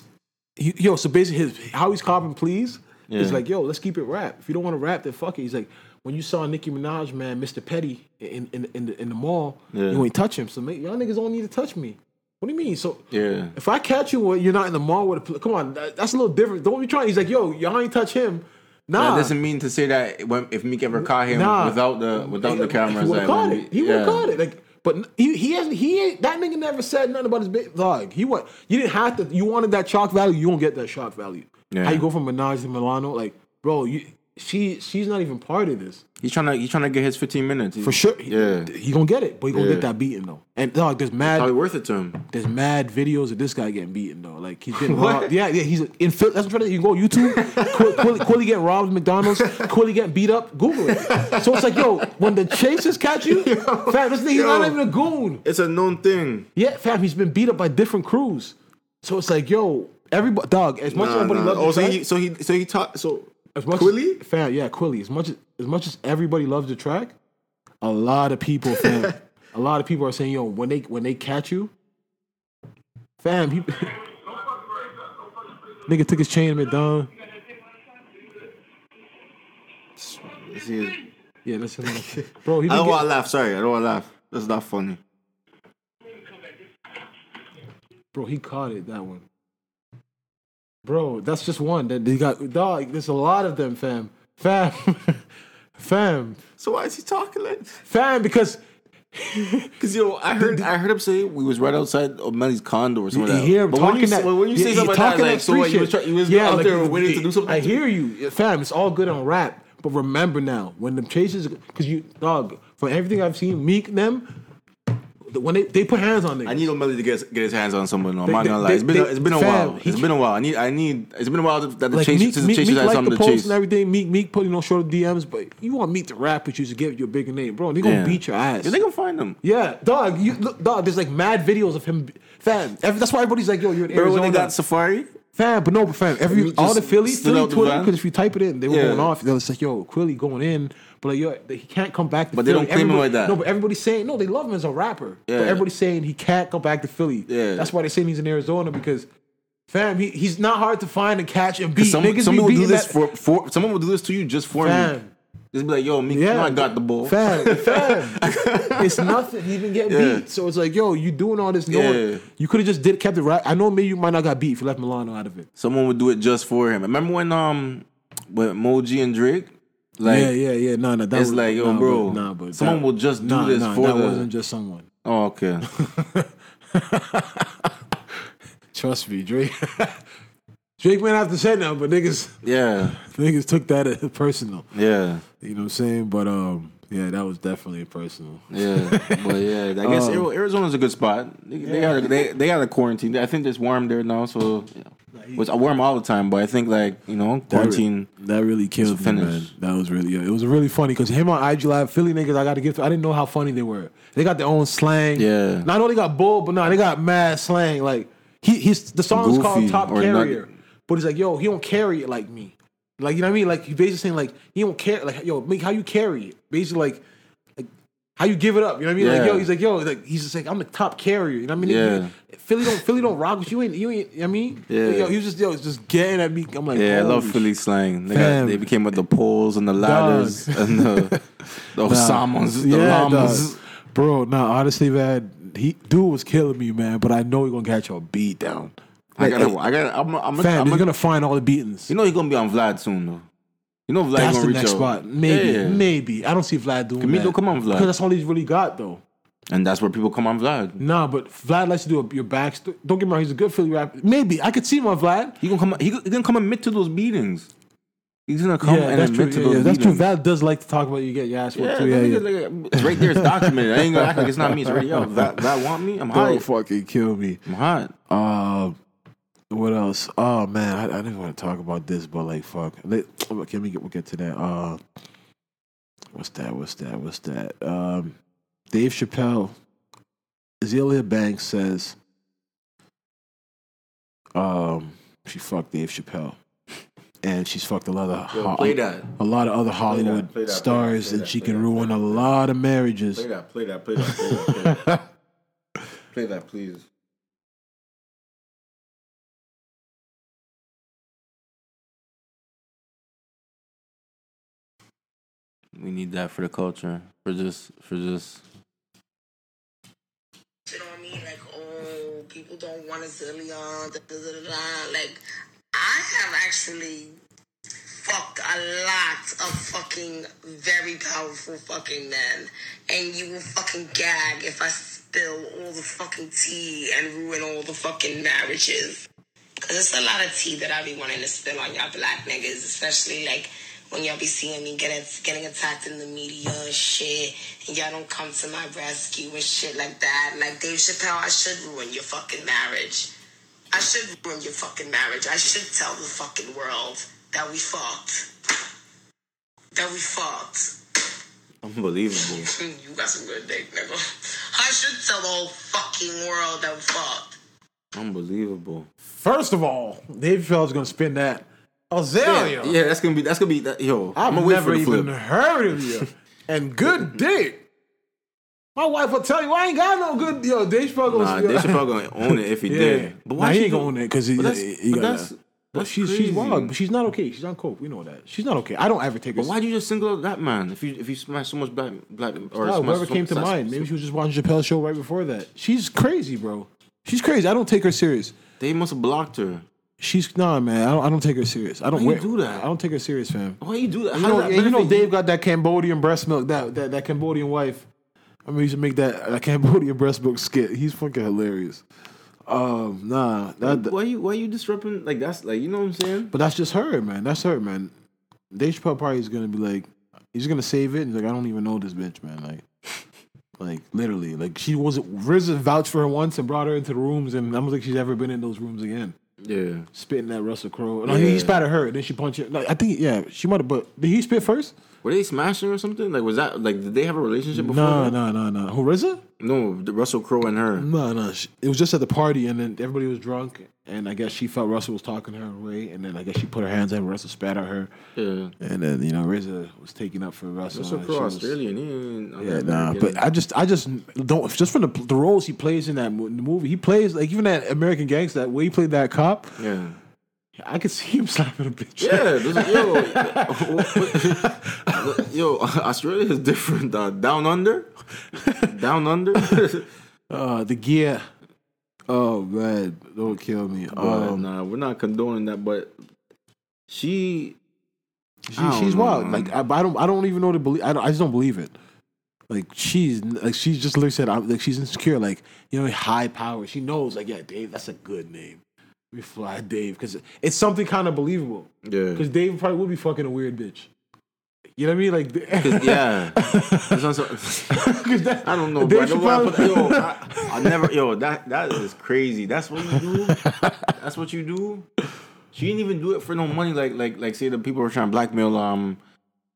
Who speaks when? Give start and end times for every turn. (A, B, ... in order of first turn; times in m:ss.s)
0:00.6-0:19.3 A
0:03.1-0:03.4 B
0:09.7-0:10.0 B
0:13.1-0:13.5 B
0:19.0-0:24.3 B
0:20.9-0:36.0 A
0:31.7-0:32.0 B
0:36.2-0:38.7 B
0:37.8-0:41.5 A
0:39.5-0:39.9 B
0:41.2-0:42.2 B
0:42.3-0:55.4 A
0:44.8-0:45.3 B
0:47.2-0:48.2 B
0:49.3-0:49.7 B
0:50.9-0:52.5 B
0:53.2-0:54.8 B
0:55.4-0:56.5 B
0:56.5-1:02.0 A
1:00.9-1:04.2 B
1:03.5-1:07.1 A
1:07.8-1:11.7 A
1:08.8-1:09.0 B
1:13.2-1:14.0 A
1:15.8-1:17.1 A
1:20.0-1:21.0 B
1:21.4-1:23.1 A
1:22.1-1:25.0 B
1:28.1-1:29.2 A
1:30.8-1:35.2 A
1:35.8-1:36.4 A
1:36.6-1:37.8 B
1:37.8-1:38.6 A
1:39.1-1:39.7 A
1:39.8-1:47.8 B
1:40.4-1:40.7 A
1:43.1-1:54.3 A
1:55.2-1:56.7 A
1:56.4-2:03.6 B
1:58.2-2:00.1 A
2:01.9-2:08.8 A
2:07.8-2:09.4 B
2:09.4-2:14.5 A
2:13.9-2:15.1 B
2:15.3-2:29.1 A
2:16.3-2:17.9 B
2:18.7-2:19.1 B
2:22.3-2:23.4 B
2:25.3-2:25.6 B
2:27.3-2:27.7 B
2:29.7-2:33.0 A
2:31.8-2:34.9 B
2:34.6-2:35.1 A
2:35.5-2:39.2 B
2:36.1-2:45.5 A
2:39.9-2:40.2 B
2:41.7-2:42.2 B
2:45.6-2:50.3 B
2:50.0-2:54.9 A
2:51.1-2:54.3 B
2:55.0-2:55.7 B
2:55.7-2:57.7 A
2:58.7-3:00.0 A
3:00.8-3:04.7 A
3:02.4-3:03.0 B
3:04.7-3:05.2 B
3:05.4-3:10.3 A
3:08.5-3:18.1 B
3:11.6-3:12.3 A
3:15.1-3:15.4 A
3:17.5-3:37.0 A
3:18.8-3:19.5 B
3:25.2-3:25.7 B
3:29.1-3:30.4 B
3:37.6-3:47.5 A
3:39.0-3:39.5 B
3:41.6-3:42.1 B
3:44.7-3:45.1 B
3:46.7-3:51.2 B
3:48.1-3:48.7 A
3:49.8-3:59.6 A
3:51.7-3:53.6 B
3:59.2-4:00.9 B
4:00.4-4:01.9 A
4:01.9-4:03.2 B
4:03.9-4:05.8 B
4:04.1-4:09.0 A
4:07.0-4:07.9 B
4:09.5-4:10.8 B
4:10.8-4:15.4 A
4:15.4-4:17.5 B
4:18.3-4:20.1 B
4:18.6-4:25.5 A
4:21.5-4:26.4 B
4:26.1-4:27.4 A
4:27.4-4:27.9 B
4:28.1-4:28.8 A
4:29.5-4:34.8 A
4:36.1-4:38.2 A
4:38.7-4:39.6 A
4:40.6-4:42.0 A
4:44.3-4:46.4 A
4:47.2-4:53.2 A
4:48.3-4:49.1 B
4:49.8-4:52.3 B
4:53.1-4:54.9 B
4:54.0-4:55.0 A
4:56.1-4:56.8 B
5:05.8-5:08.4 B
5:10.7-5:15.2 C
5:15.7-5:17.2 C
5:17.9-5:29.1 C
5:29.6-5:43.1 C
5:43.7-5:48.3 C
5:49.7-5:50.8 C
5:51.6-5:52.5 B
5:52.3-5:57.4 C
5:57.9-5:58.9 B
5:59.1-6:02.8 A
6:02.2-6:05.1 B
6:04.1-6:07.6 A
6:08.8-6:19.5 A
6:11.1-6:16.7 B
6:19.4-6:23.9 B
6:22.5-6:28.3 A
6:28.6-6:29.6 B
6:30.0-6:33.6 A
6:31.9-6:32.6 B
6:33.6-6:35.1 B
6:34.1-6:37.9 A
6:38.4-6:41.8 A
6:42.4-6:43.9 A
6:43.6-6:46.3 B
6:46.3-6:47.9 A
6:48.5-6:52.6 A
6:53.6-6:59.1 A
6:59.4-6:59.9 B
6:59.9-7:04.7 A
7:01.0-7:01.6 B
7:05.0-7:08.2 B
7:07.5-7:09.2 A
7:09.4-7:10.9 B
7:10.8-7:17.9 A
7:18.2-7:18.5 B
7:18.6-7:21.6 A
7:20.7-7:23.2 B
7:22.4-7:29.6 A
7:29.6-7:30.0 B
7:30.6-7:35.2 A
7:32.0-7:37.9 B
7:38.4-7:38.7 A
7:38.6-7:39.9 B
7:40.3-7:41.2 A
7:42.1-7:44.5 A
7:43.9-7:45.9 B
7:46.9-7:47.6 B
7:48.5-7:51.7 A
7:48.5-7:49.5 B
7:52.5-7:58.6 A
7:59.1-8:03.9 A
8:01.8-8:02.2 B
8:04.8-8:10.9 A
8:05.6-8:07.8 B
8:08.4-8:14.8 B
8:12.9-8:13.8 A
8:15.5-8:19.0 B